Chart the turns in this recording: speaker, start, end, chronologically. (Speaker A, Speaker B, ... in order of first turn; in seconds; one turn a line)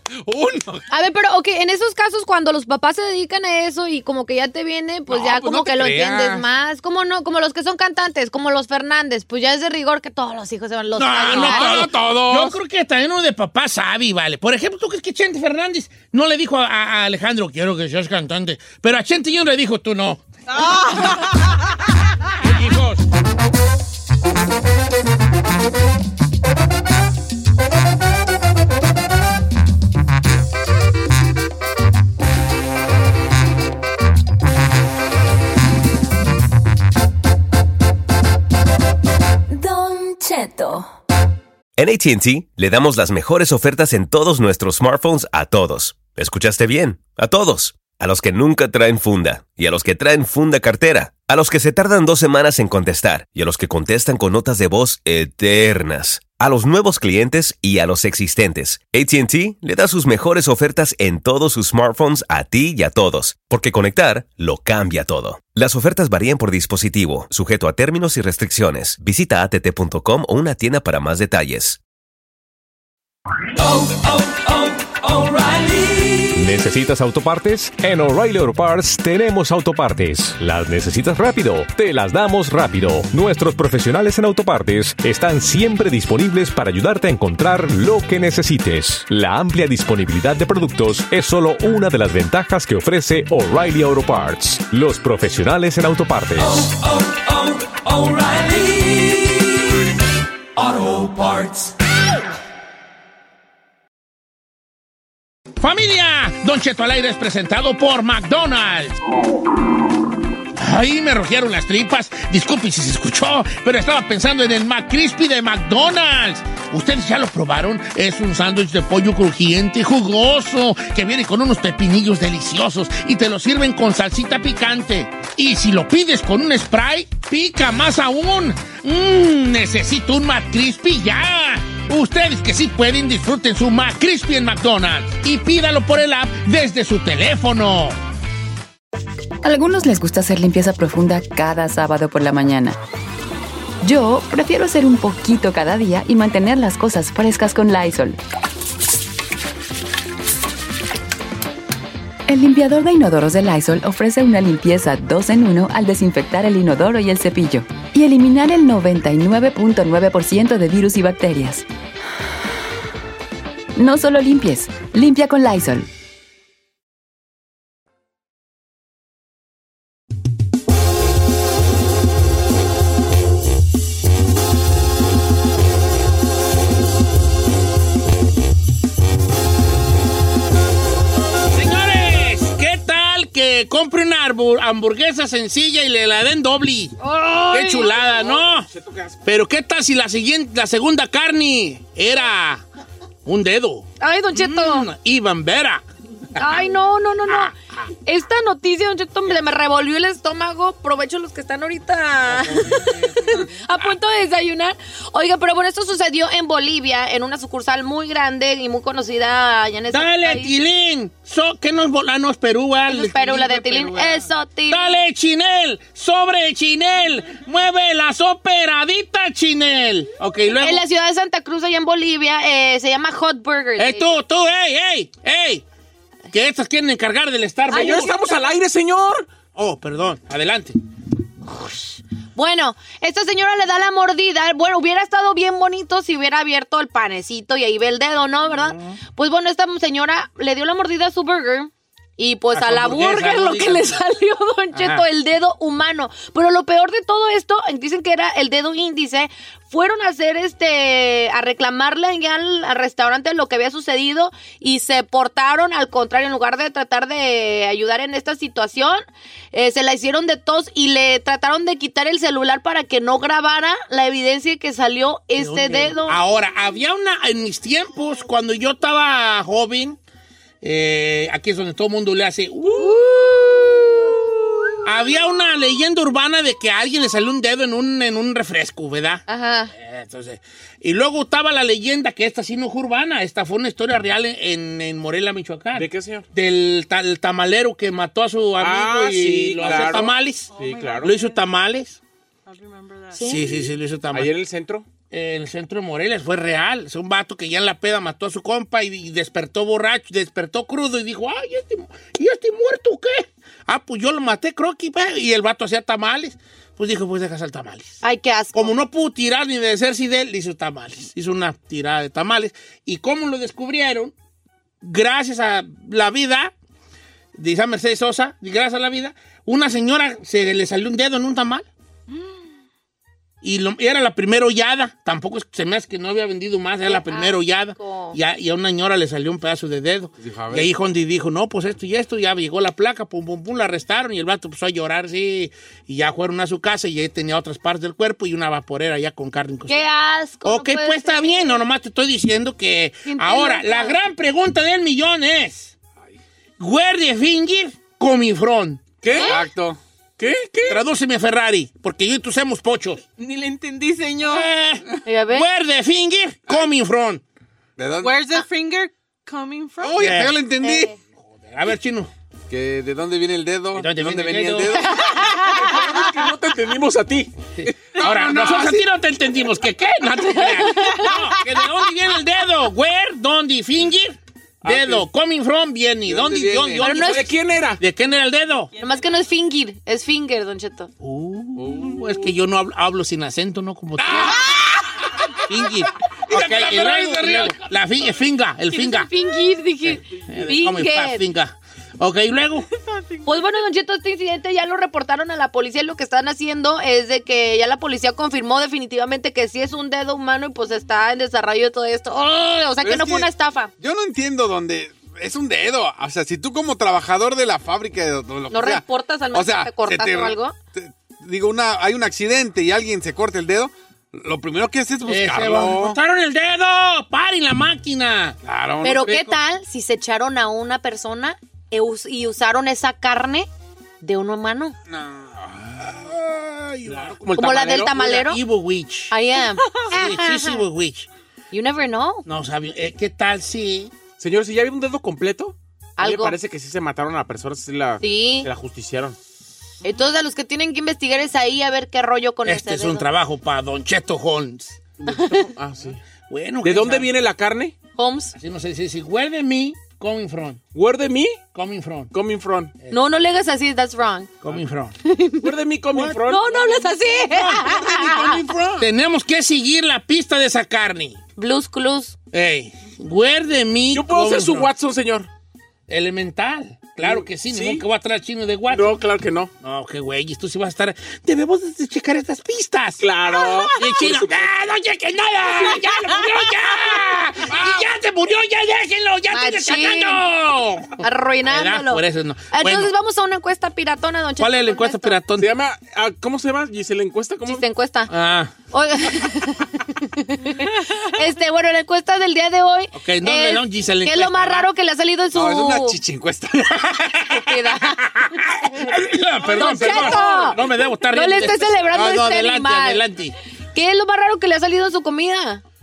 Speaker A: 0.2-0.8
Speaker B: 0.9-11.9
Speaker A: 5.1-6.4
Speaker C: 10.9-20.2
Speaker A: 11.1-12.5
Speaker D: 20.5-21.6
Speaker C: 22.4-23.1
Speaker E: 39.5-40.9
Speaker F: 41.8-71.8
Speaker E: 73.7-73.9
Speaker E: 75.1-76.2
Speaker G: 76.3-96.6
Speaker E: 96.6-99.2
Speaker E: 100.6-101.7
Speaker C: 105.6-109.0
Speaker C: 110.5-138.0
Speaker H: 139.4-142.8
Speaker H: 143.8-148.2
Speaker H: 152.3-161.6
Speaker H: 163.8-165.9
Speaker C: 181.5-188.7
Speaker B: 187.0-188.4
Speaker I: 188.7-189.1
Speaker C: 189.2-192.6
Speaker C: 193.2-195.8
Speaker B: 194.0-194.9
Speaker C: 196.3-196.6
Speaker B: 196.3-197.5
Speaker C: 197.3-197.9
Speaker B: 198.1-210.5
Speaker C: 202.2-203.8
Speaker C: 209.9-220.8
Speaker B: 212.9-215.0
Speaker B: 220.6-224.2
Speaker C: 223.8-225.6
Speaker C: 226.3-228.2
Speaker I: 227.7-229.3
Speaker B: 227.7-228.4
Speaker C: 229.5-230.8
Speaker B: 232.3-266.2
Speaker C: 238.5-239.0
Speaker C: 242.5-244.0
Speaker C: 244.7-245.0
Speaker C: 265.4-270.0
Speaker C: 270.6-273.4
Speaker B: 272.8-273.8
Speaker C: 274.8-292.0
Speaker B: 279.3-279.7
Speaker I: 285.7-286.2
Speaker I: 288.6-291.1
Speaker D: 290.5-291.3
Speaker D: 292.5-293.4
Speaker B: 293.1-293.4
Speaker C: 293.1-294.3
Speaker I: 294.1-294.9
Speaker C: 295.1-308.0
Speaker B: 308.0-308.7
Speaker C: 308.5-314.1
Speaker C: 314.8-316.5
Speaker C: 317.3-321.7
Speaker C: 323.4-339.8
Speaker B: 326.9-328.2
Speaker A: 330.2-330.7
Speaker B: 339.7-341.6
Speaker C: 340.4-345.7
Speaker B: 343.1-344.0
Speaker C: 346.6-348.9
Speaker I: 349.0-349.4
Speaker B: 349.1-349.4
Speaker A: 349.1-349.8
Speaker I: 350.2-350.8
Speaker C: 350.7-353.0
Speaker D: 353.2-354.5
Speaker C: 354.2-357.2
Speaker B: 355.1-355.4
Speaker A: 357.8-358.2
Speaker D: 358.0-360.1
Speaker A: 359.8-360.9
Speaker C: 360.0-360.4
Speaker B: 360.6-360.9
Speaker C: 361.5-362.1
Speaker A: 362.5-364.9
Speaker C: 363.7-364.9
Speaker B: 365.0-365.7
Speaker I: 365.4-367.4
Speaker C: 367.6-377.2
Speaker A: 367.9-368.8
Speaker B: 370.3-371.2
Speaker A: 376.1-376.8
Speaker B: 376.8-377.3
Speaker I: 377.0-377.8
Speaker C: 377.8-378.7
Speaker D: 378.8-379.2
Speaker B: 378.8-380.9
Speaker C: 381.0-384.5
Speaker A: 381.6-382.2
Speaker A: 384.0-385.4
Speaker C: 385.4-389.1
Speaker A: 386.3-387.6
Speaker B: 388.7-391.2
Speaker C: 389.9-392.6
Speaker D: 392.9-393.2
Speaker B: 393.2-403.7
Speaker A: 402.8-403.3
Speaker A: 403.8-416.0
Speaker B: 408.5-410.6
Speaker C: 415.0-418.4
Speaker A: 418.4-419.3
Speaker B: 418.8-423.5
Speaker B: 424.0-424.8
Speaker A: 424.9-426.0
Speaker C: 426.1-429.1
Speaker I: 426.9-427.9
Speaker B: 427.3-428.4
Speaker B: 429.1-430.6
Speaker C: 429.9-431.1
Speaker B: 431.5-432.2
Speaker C: 432.2-433.9
Speaker I: 434.2-439.2
Speaker B: 436.0-436.4
Speaker B: 438.0-438.5
Speaker B: 439.8-443.1
Speaker C: 442.4-444.8
Speaker I: 445.0-446.0
Speaker B: 445.1-445.5
Speaker C: 446.3-447.1
Speaker I: 446.6-447.8
Speaker B: 447.9-448.4
Speaker C: 448.3-450.6
Speaker I: 450.7-451.4
Speaker C: 451.5-452.1
Speaker I: 452.1-452.8
Speaker B: 452.9-454.3
Speaker C: 454.4-454.9
Speaker B: 455.0-455.5
Speaker I: 455.4-456.5
Speaker C: 455.9-456.6
Speaker B: 456.2-458.4
Speaker C: 457.1-457.8
Speaker A: 458.0-458.3
Speaker I: 458.5-458.8
Speaker C: 458.8-461.2
Speaker B: 461.4-462.1
Speaker C: 462.3-464.7
Speaker I: 463.9-465.3
Speaker C: 465.9-469.0
Speaker I: 467.0-467.8
Speaker I: 468.7-469.5
Speaker C: 469.6-473.0
Speaker I: 473.0-474.5
Speaker C: 473.8-482.9
Speaker A: 477.5-477.9
Speaker B: 479.3-480.2
Speaker B: 481.0-485.2
Speaker C: 484.4-485.5
Speaker I: 485.3-487.6
Speaker B: 487.4-488.1
Speaker C: 488.1-488.5
Speaker B: 488.7-496.0
Speaker C: 492.9-494.7
Speaker A: 495.3-496.8
Speaker C: 496.8-503.4
Speaker B: 497.3-498.0
Speaker B: 499.5-503.0
Speaker I: 499.5-500.5
Speaker B: 503.7-505.6